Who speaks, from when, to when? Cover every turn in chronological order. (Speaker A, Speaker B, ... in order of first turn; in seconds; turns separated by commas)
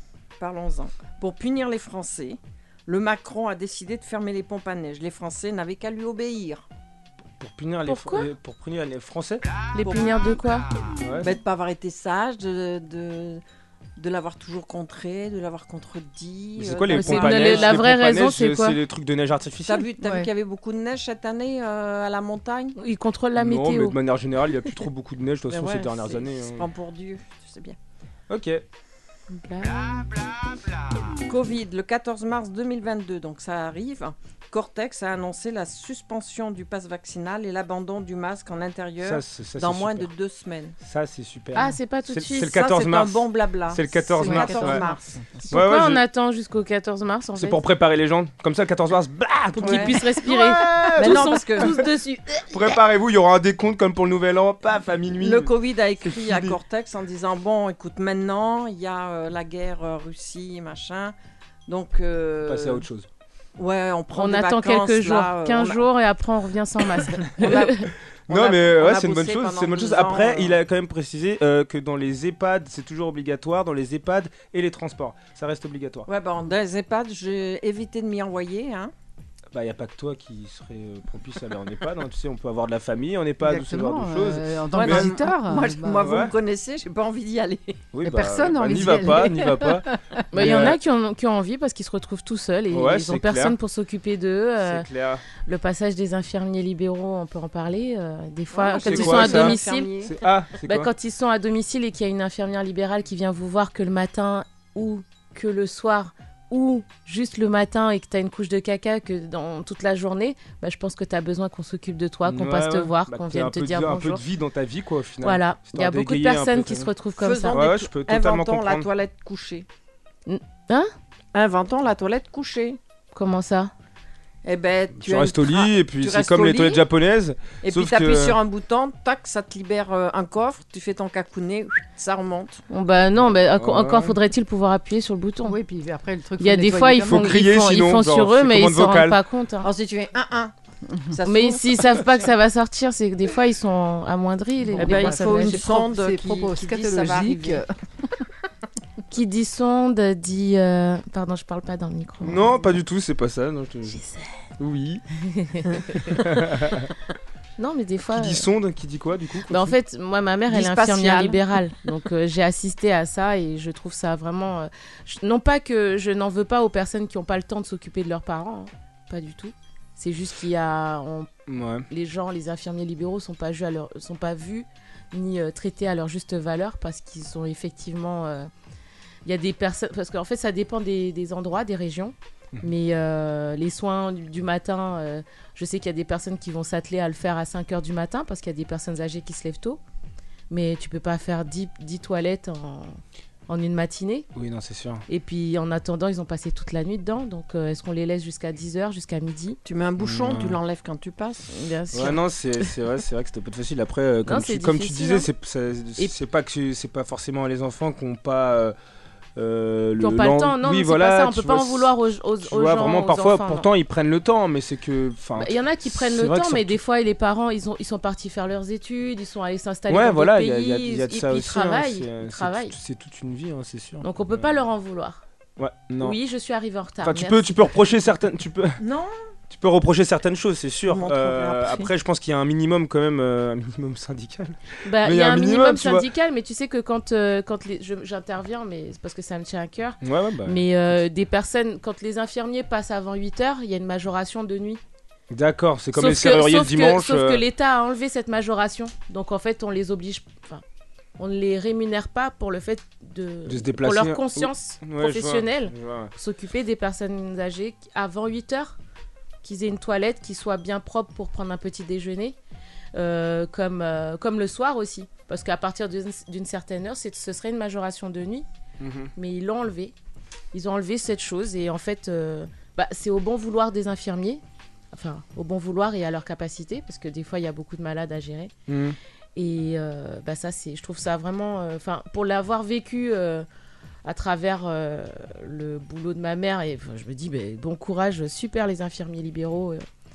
Speaker A: 0.4-6.6, Speaker B: 7.4-9.5, Speaker C: 7.8-8.3, Speaker C: 9.7-10.7, Speaker A: 9.8-10.3, Speaker B: 11.0-11.3, Speaker A: 11.2-13.4, Speaker A: 14.0-17.8, Speaker B: 16.6-19.9, Speaker C: 16.9-18.8, Speaker A: 19.6-22.7, Speaker D: 20.0-20.3, Speaker C: 22.8-24.0, Speaker B: 23.4-26.7, Speaker A: 25.5-27.8, Speaker B: 28.3-28.6, Speaker C: 29.3-30.1, Speaker A: 31.3-40.8, Speaker B: 39.0-40.1, Speaker B: 40.8-44.8, Speaker C: 41.5-42.6, Speaker A: 42.4-45.2, Speaker D: 44.2-45.5, Speaker C: 45.5-47.6, Speaker B: 45.5-46.0, Speaker B: 47.4-51.9, Speaker C: 49.5-52.6, Speaker A: 49.6-50.0, Speaker A: 51.0-51.8, Speaker B: 52.5-56.6, Speaker A: 55.2-61.1, Speaker A: 61.7-62.9, Speaker B: 62.4-63.1, Speaker A: 63.6-65.8, Speaker C: 64.1-67.9, Speaker A: 67.2-70.5, Speaker B: 68.3-76.1, Speaker A: 76.1-78.9, Speaker B: 79.5-85.2, Speaker D: 83.4-86.3, Speaker A: 84.7-87.8, Speaker B: 86.0-86.3, Speaker B: 87.9-90.8, Speaker D: 88.0-90.2, Speaker C: 90.3-94.8, Speaker B: 92.7-93.6, Speaker B: 94.6-95.2, Speaker C: 95.4-99.9, Speaker A: 98.5-100.1, Speaker B: 98.8-100.9, Speaker C: 100.6-114.2, Speaker B: 112.2-116.9, Speaker C: 115.2-117.6, Speaker A: 117.2-119.7, Speaker B: 117.5-118.9, Speaker C: 120.3-120.9, Speaker A: 121.3-122.8, Speaker C: 123.1-123.7, Speaker A: 124.4-126.8, Speaker B: 125.0-128.4, Speaker A: 127.6-132.6, Speaker C: 132.7-135.6, Speaker B: 133.2-134.2, Speaker D: 135.4-137.3, Speaker C: 136.4-139.7, Speaker B: 137.0-139.2, Speaker A: 139.6-140.5, Speaker D: 140.9-141.2, Speaker A: 141.1-142.2, Speaker C: 141.2-145.6, Speaker D: 144.6-148.2, Speaker A: 144.8-147.6, Speaker C: 149.1-152.5, Speaker B: 152.2-154.0, Speaker C: 154.0-154.2, Speaker B: 154.6-155.0, Speaker C: 155.2-156.2, Speaker B: 156.1-156.9, Speaker C: 157.6-158.5, Speaker B: 158.1-159.8, Speaker C: 159.5-171.3, Speaker A: 160.5-161.6, Speaker B: 171.5-171.9, Speaker C: 171.9-178.5, Speaker C: 179.2-189.8, Speaker C: 190.5-194.3, Speaker B: 194.3-195.0, Speaker C: 195.1-199.6, Speaker A: 199.6-201.5, Speaker B: 200.0-200.6, Speaker C: 201.5-202.7, Speaker B: 201.9-208.8, Speaker C: 204.2-205.3, Speaker B: 209.3-216.8, Speaker C: 210.0-213.7, Speaker C: 215.4-222.7, Speaker B: 219.9-224.6, Speaker C: 224.0-225.2, Speaker B: 225.6-226.2, Speaker C: 226.0-227.6, Speaker B: 227.0-228.8, Speaker A: 228.8-229.1, Speaker B: 229.5-236.1, Speaker A: 230.9-231.9, Speaker C: 234.8-244.8, Speaker B: 240.0-241.0, Speaker B: 245.3-247.4, Speaker C: 245.9-250.6, Speaker C: 251.2-258.8, Speaker B: 253.4-256.1, Speaker C: 259.4-262.4, Speaker C: 262.9-268.4, Speaker B: 268.8-269.1, Speaker C: 269.1-269.9, Speaker C: 270.5-278.5, Speaker B: 278.7-279.0, Speaker C: 279.4-283.4, Speaker C: 284.0-289.8